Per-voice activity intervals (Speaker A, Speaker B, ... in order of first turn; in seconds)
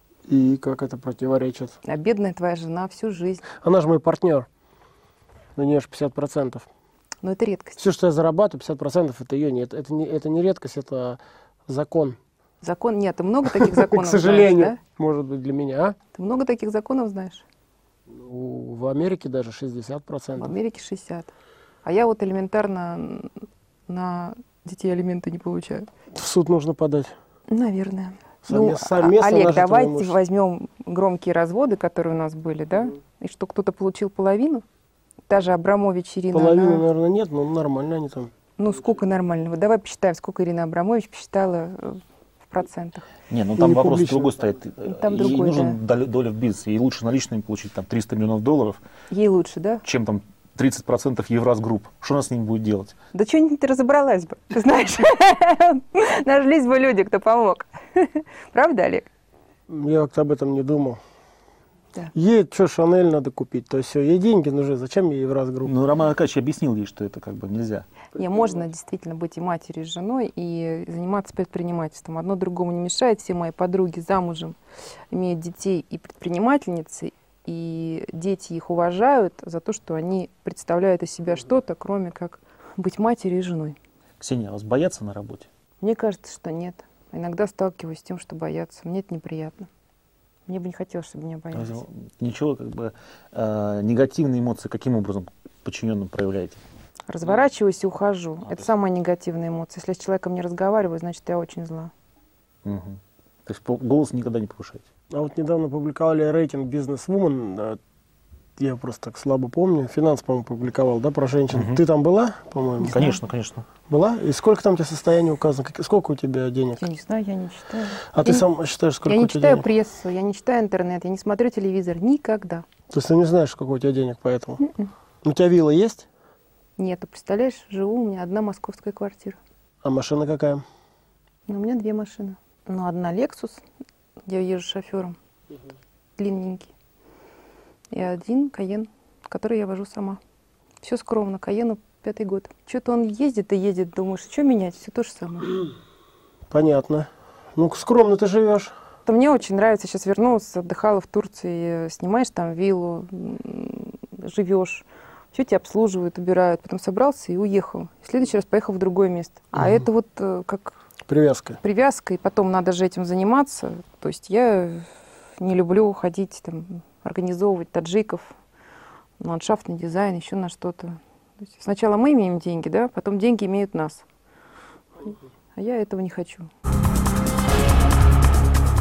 Speaker A: 0.3-1.8, 3.5-4.5, 5.6-6.7, 7.8-12.2, 13.5-16.0, 18.1-20.6, 26.1-27.1, 28.4-30.2, 36.3-38.3, 43.6-44.4, 59.7-61.0, 62.1-65.7, 105.1-107.8, 108.6-113.0, 113.9-116.9, 118.1-119.7, 122.9-124.6, 125.2-126.1, 129.8-130.6, 146.5-148.7, 161.1-161.6
Speaker B: 1.8-3.5, 7.2-7.8, 12.6-14.8, 16.1-17.4, 20.4-21.3, 21.9-25.9, 27.5-34.6, 35.3-36.9, 38.6-43.1, 44.8-45.8, 49.1-49.8, 53.1-59.1, 68.1-74.6, 75.1-83.8, 85.8-89.7, 90.5-91.8, 97.1-101.9, 112.9-113.2, 116.8-118.5, 119.1-122.7, 124.6-124.9, 126.8-129.4, 131.5-133.6, 134.3-135.2, 136.2-136.7, 137.9-140.2, 140.8-145.6, 149.1-160.8, 161.6-168.3, 169.2-174.0, 175.6-176.5
Speaker C: 43.3-48.8, 49.8-53.0, 65.7-67.9, 84.2-85.5, 91.5-96.6, 102.7-104.9, 111.5-111.8, 112.8-113.7